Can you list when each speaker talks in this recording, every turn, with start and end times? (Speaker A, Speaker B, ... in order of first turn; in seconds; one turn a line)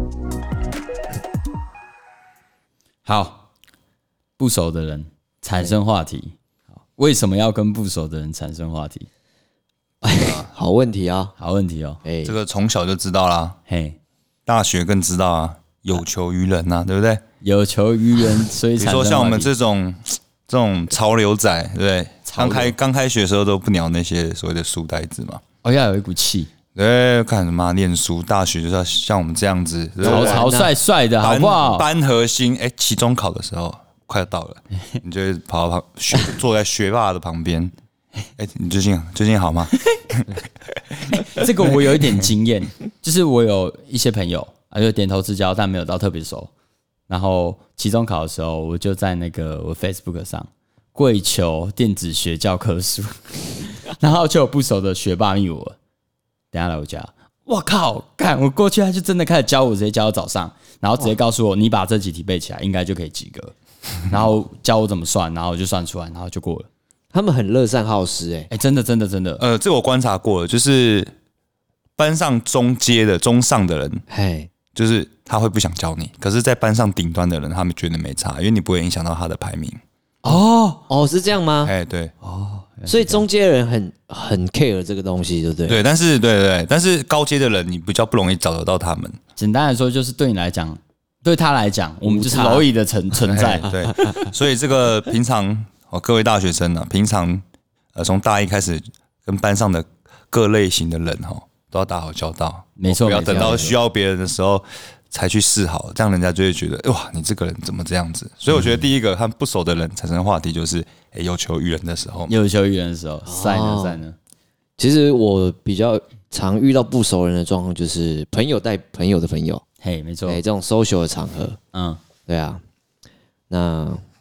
Speaker A: 3.0-3.5
Speaker A: 4.4-6.4
Speaker A: 7.0-9.1
Speaker B: 10.0-11.3
Speaker C: 10.2-10.5
Speaker A: 11.4-12.0
Speaker B: 12.0-12.4
Speaker C: 12.2-13.6
Speaker A: 13.7-14.0
Speaker C: 14.5-17.2
Speaker A: 17.4-19.5
Speaker C: 18.8-25.4
Speaker A: 22.3-22.7
Speaker A: 25.6-26.5
Speaker C: 26.8-30.5
Speaker B: 30.0-30.7
Speaker A: 30.1-31.9
Speaker C: 31.2-37.7
Speaker C: 38.4-40.2
Speaker A: 41.1-46.5
Speaker A: 47.1-55.8
Speaker A: 56.5-63.5
Speaker A: 64.1-66.7
Speaker B: 67.1-68.5
Speaker A: 68.5-69.4
Speaker C: 69.4-71.1
Speaker C: 72.0-74.0
Speaker B: 74.1-74.5
Speaker C: 74.7-79.8
Speaker A: 80.2-80.8
Speaker B: 80.3-81.7
Speaker C: 81.6-82.1
Speaker A: 82.2-83.2
Speaker B: 82.9-85.8
Speaker C: 85.7-89.2
Speaker A: 89.4-93.7
Speaker B: 92.0-92.7
Speaker C: 93.3-97.4
Speaker B: 93.9-94.2
Speaker C: 98.0-112.3
Speaker A: 102.8-103.7
Speaker B: 103.2-103.8
Speaker A: 112.3-114.2
Speaker B: 113.3-114.0
Speaker B: 114.8-119.6
Speaker A: 119.8-120.4
Speaker B: 120.3-121.6
Speaker A: 121.7-122.0
Speaker B: 122.3-122.6
Speaker B: 123.5-124.0